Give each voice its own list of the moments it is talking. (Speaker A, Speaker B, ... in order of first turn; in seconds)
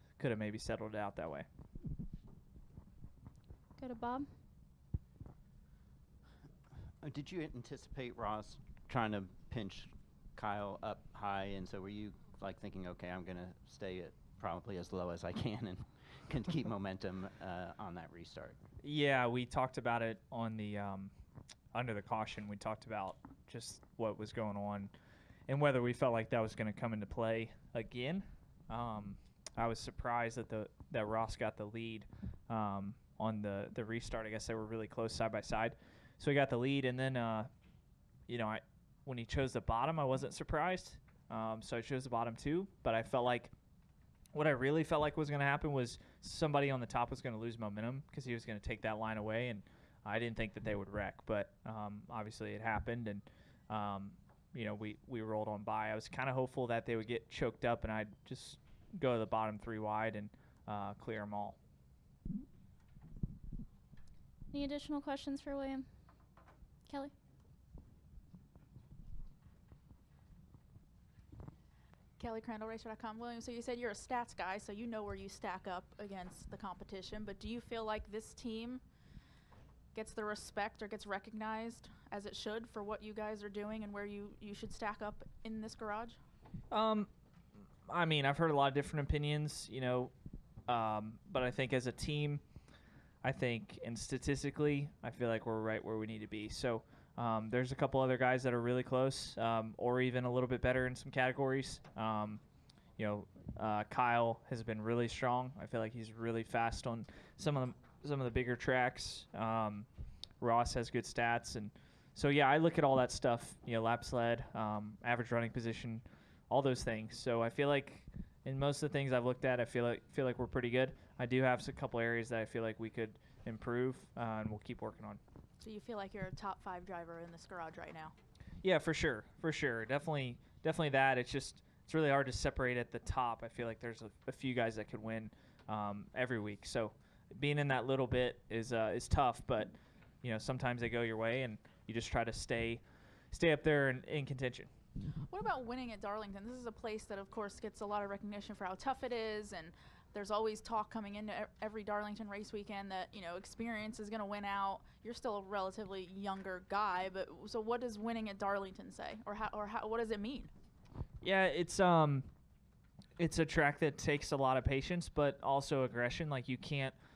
Speaker A: 0.2-1.5, 18.8-21.1, 21.7-24.9, 25.5-37.5, 38.3-43.5, 44.3-61.6, 86.7-87.1, 87.8-90.1, 90.7-92.4, 93.2-102.4, 103.0-109.9, 110.4-125.2, 128.6-144.7, 161.2-162.3, 163.2-166.9
Speaker B: 3.8-4.3, 64.5-65.8, 66.9-67.1
Speaker C: 7.0-18.6
Speaker D: 72.2-78.8, 79.9-86.2, 125.6-128.1, 145.3-160.5